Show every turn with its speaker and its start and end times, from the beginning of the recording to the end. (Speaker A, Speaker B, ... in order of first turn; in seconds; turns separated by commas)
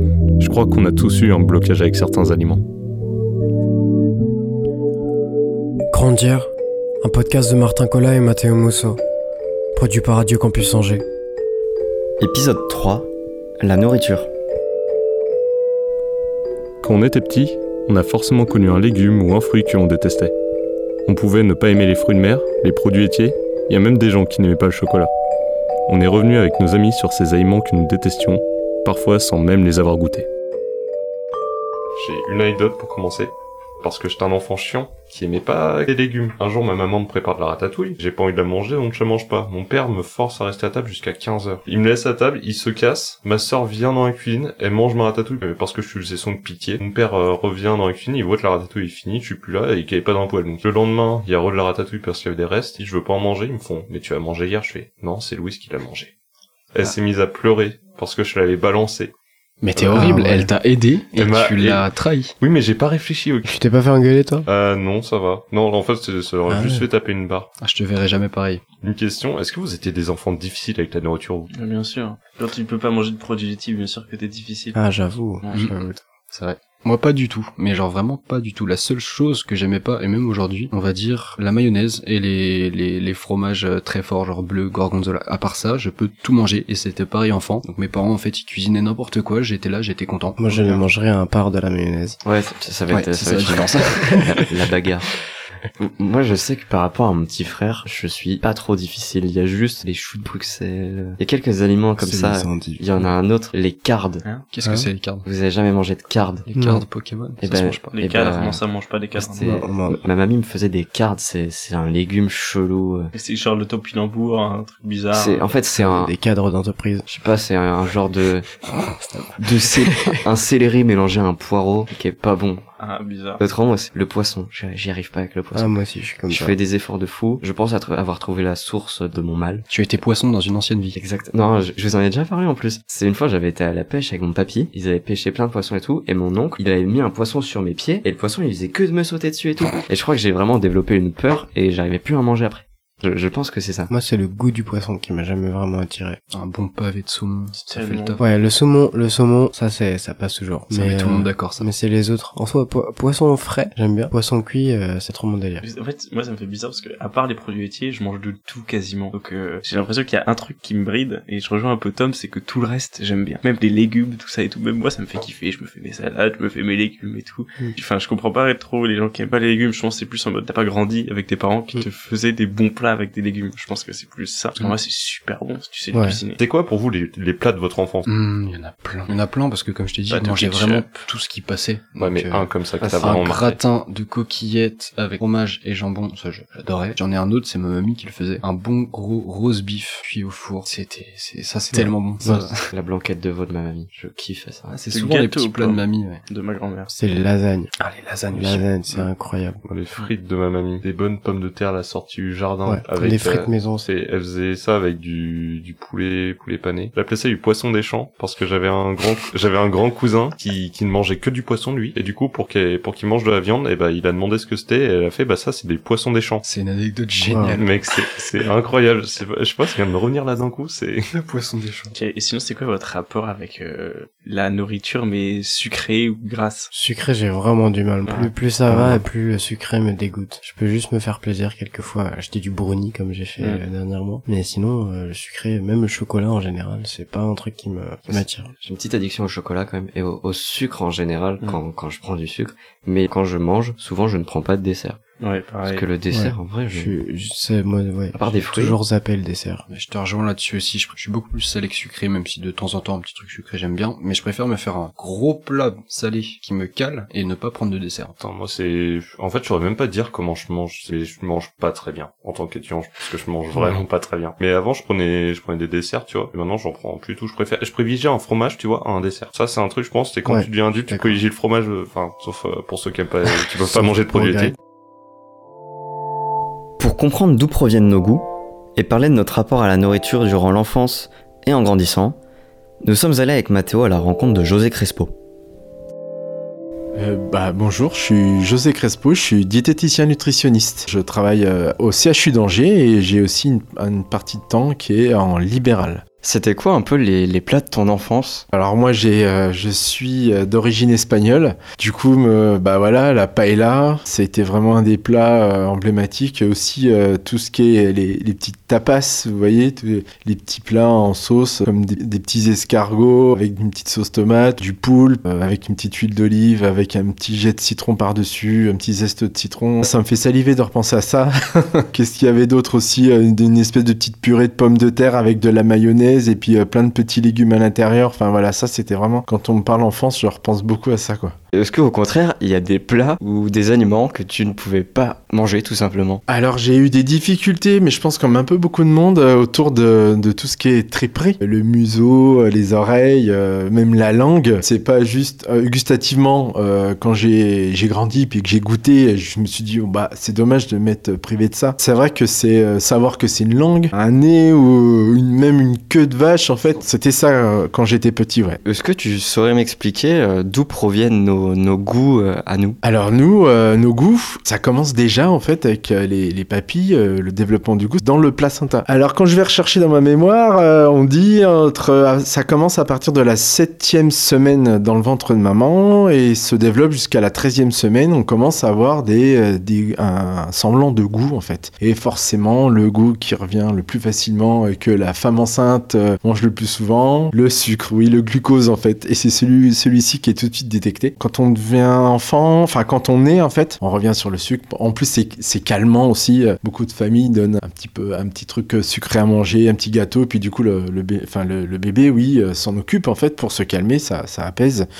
Speaker A: 0.4-2.6, Speaker B: 5.9-9.0, Speaker B: 9.8-11.1, Speaker C: 12.2-14.3, Speaker A: 16.8-20.3, Speaker A: 21.1-25.1, Speaker A: 25.9-30.3, Speaker A: 32.0-56.1, Speaker A: 56.7-59.1, Speaker D: 59.6-62.3, Speaker A: 59.8-60.1, Speaker B: 59.9-60.5, Speaker A: 61.1-63.6, Speaker B: 63.5-64.5, Speaker A: 64.5-67.5, Speaker B: 66.5-66.9, Speaker D: 67.6-68.6, Speaker A: 68.8-71.5, Speaker E: 71.5-74.8, Speaker B: 74.8-76.0, Speaker E: 75.4-75.8, Speaker D: 76.3-90.4, Speaker B: 90.4-92.2, Speaker C: 92.2-95.1, Speaker D: 92.9-94.7, Speaker C: 95.8-104.2, Speaker B: 102.0-102.8, Speaker D: 104.5-105.2, Speaker B: 104.6-104.9, Speaker C: 105.2-106.5, Speaker D: 106.5-108.0, Speaker B: 106.5-106.8, Speaker C: 107.4-108.6, Speaker E: 107.9-109.6, Speaker C: 109.2-113.1, Speaker B: 109.4-110.0, Speaker E: 113.1-115.6, Speaker C: 115.1-116.1, Speaker B: 115.8-117.1, Speaker C: 117.1-118.5, Speaker B: 119.0-119.5, Speaker C: 119.4-122.7, Speaker E: 122.8-123.4, Speaker C: 123.4-125.7, Speaker B: 125.5-126.6, Speaker C: 126.3-129.7, Speaker D: 129.7-131.0, Speaker C: 130.9-143.9, Speaker B: 143.9-146.2, Speaker D: 146.3-148.2, Speaker E: 147.6-148.2, Speaker B: 148.2-155.6, Speaker D: 150.7-151.7, Speaker E: 155.6-176.4, Speaker B: 175.9-176.2, Speaker A: 176.4-178.1, Speaker D: 178.1-192.7, Speaker A: 180.1-181.0, Speaker A: 182.0-183.6, Speaker C: 182.8-183.2, Speaker B: 191.7-192.5, Speaker C: 192.7-194.7, Speaker D: 194.7-196.2, Speaker E: 194.9-196.9, Speaker B: 196.9-197.7, Speaker D: 197.8-199.0, Speaker B: 198.3-199.6, Speaker A: 199.7-216.4, Speaker B: 202.7-203.9, Speaker D: 216.4-218.2, Speaker B: 217.3-217.6, Speaker A: 217.5-221.1, Speaker D: 221.1-221.9, Speaker E: 221.9-226.7, Speaker B: 226.7-238.5, Speaker E: 228.1-228.3, Speaker C: 238.1-245.0, Speaker E: 245.2-245.8, Speaker C: 245.7-246.9, Speaker B: 246.1-249.7, Speaker C: 248.1-248.8, Speaker D: 249.7-258.1, Speaker A: 258.2-274.6, Speaker B: 270.3-271.2, Speaker B: 273.4-274.5, Speaker C: 276.8-282.2, Speaker C: 282.8-285.1, Speaker F: 286.9-296.0, Speaker C: 296.2-298.4, Speaker F: 298.5-331.4, Speaker C: 331.5-336.2, Speaker F: 336.3-358.6, Speaker C: 358.6-362.8, Speaker F: 362.8-404.9